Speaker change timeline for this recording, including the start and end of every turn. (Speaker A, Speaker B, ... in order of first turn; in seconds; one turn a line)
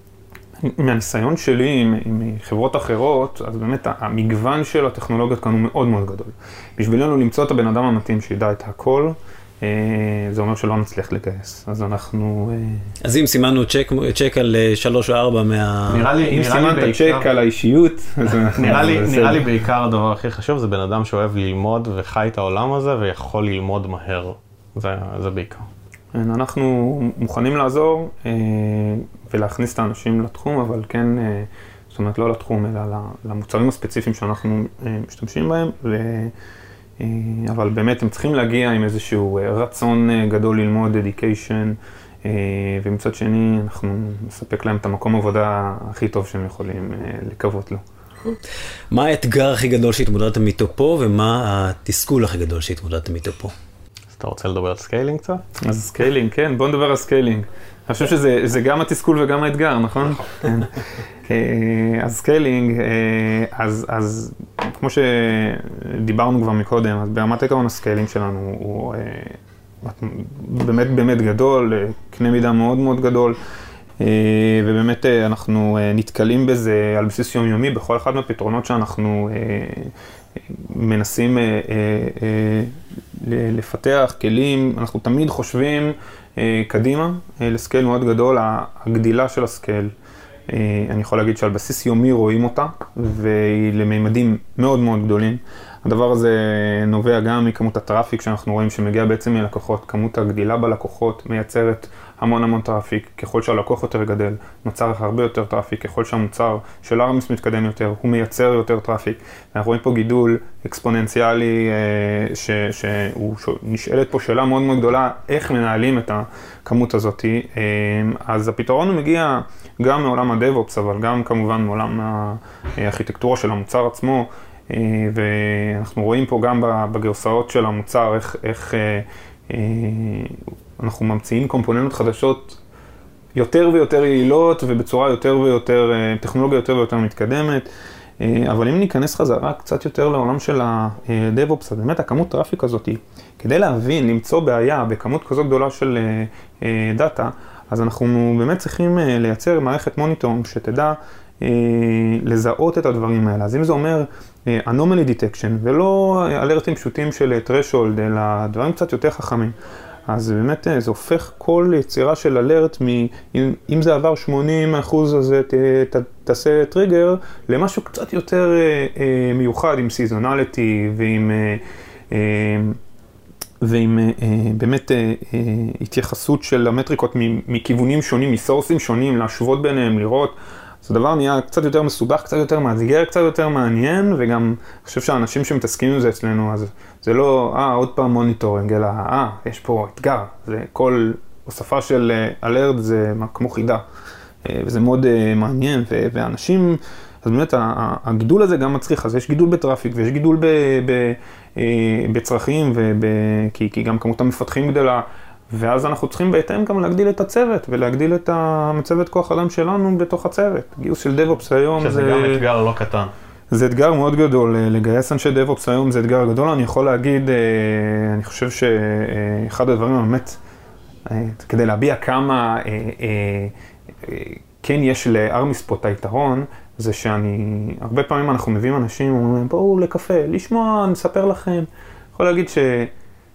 Speaker A: 0.6-12.9
Speaker B: 13.0-16.1
Speaker C: 15.9-17.3
Speaker A: 16.2-19.5
Speaker C: 18.4-25.7
Speaker A: 26.1-36.3
Speaker A: 37.0-47.8
Speaker B: 48.9-53.5
Speaker C: 54.1-55.4
Speaker A: 55.6-73.4
Speaker A: 74.0-89.9
Speaker A: 90.5-132.6
Speaker A: 133.3-137.7
Speaker A: 138.2-159.5
Speaker A: 160.1-172.8
Speaker A: 173.6-193.8
Speaker A: 194.4-212.4
Speaker C: 211.8-213.1
Speaker A: 213.5-220.4
Speaker A: 221.1-223.5
Speaker A: 224.0-232.9